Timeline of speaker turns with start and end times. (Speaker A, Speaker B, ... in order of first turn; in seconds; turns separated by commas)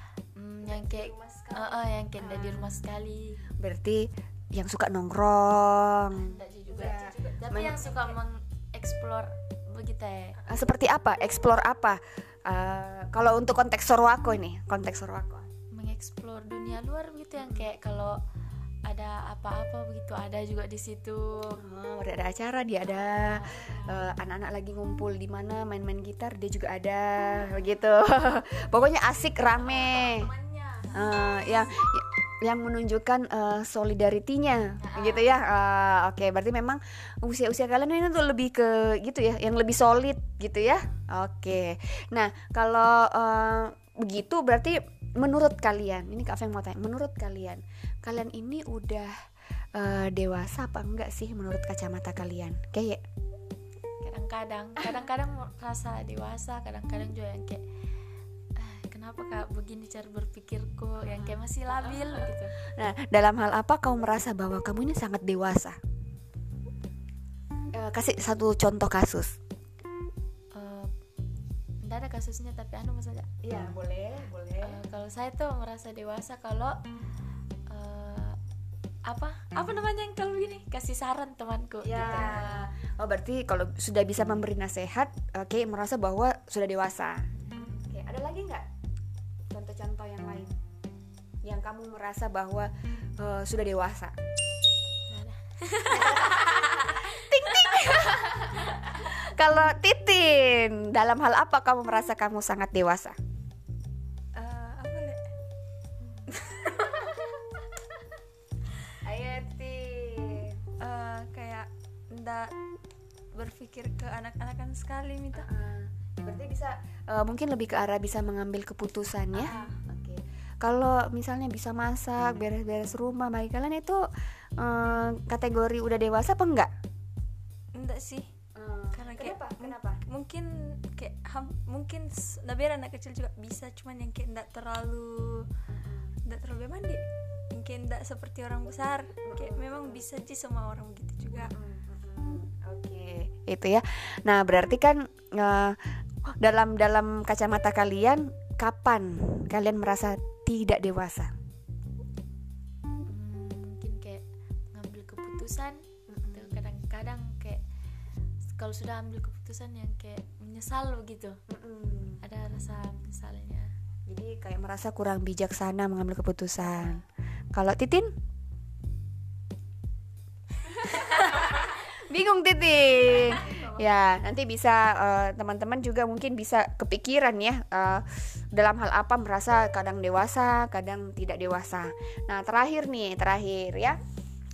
Speaker A: 0.3-3.5, Speaker B: 0.6-1.9, Speaker C: 2.2-2.7, Speaker C: 3.6-7.8, Speaker A: 6.1-10.4, Speaker B: 6.8-8.2, Speaker B: 10.4-10.9, Speaker C: 10.5-15.5, Speaker A: 15.7-18.2, Speaker C: 17.4-17.8, Speaker A: 18.9-21.6, Speaker C: 21.6-30.3, Speaker A: 23.0-24.0, Speaker B: 29.5-31.0, Speaker C: 30.9-49.1, Speaker C: 49.8-53.0, Speaker A: 54.0-57.6, Speaker A: 58.6-62.5, Speaker C: 61.0-65.8, Speaker C: 67.7-69.4, Speaker A: 70.5-70.9, Speaker A: 71.8-73.3, Speaker C: 73.4-74.9, Speaker A: 74.6-76.8, Speaker A: 77.7-78.4, Speaker A: 79.0-82.7, Speaker C: 81.8-88.7, Speaker C: 89.5-90.5, Speaker C: 91.4-94.2, Speaker A: 95.1-96.6, Speaker C: 95.9-103.2, Speaker B: 104.3-105.2, Speaker B: 106.3-107.1, Speaker C: 109.0-110.6, Speaker B: 110.8-112.5, Speaker B: 113.3-115.5, Speaker C: 115.3-126.7, Speaker B: 119.3-119.8, Speaker B: 127.7-128.3, Speaker C: 128.6-130.0, Speaker B: 128.9-135.5, Speaker C: 135.7-136.2, Speaker B: 136.2-137.0, Speaker B: 137.5-141.6, Speaker C: 139.2-140.0, Speaker C: 141.3-151.3, Speaker A: 153.1-157.6, Speaker C: 156.1-156.6, Speaker A: 158.5-161.4, Speaker C: 161.5-162.2, Speaker A: 162.2-163.7, Speaker C: 164.1-168.1, Speaker A: 166.6-167.0, Speaker C: 170.6-184.0, Speaker B: 173.1-173.8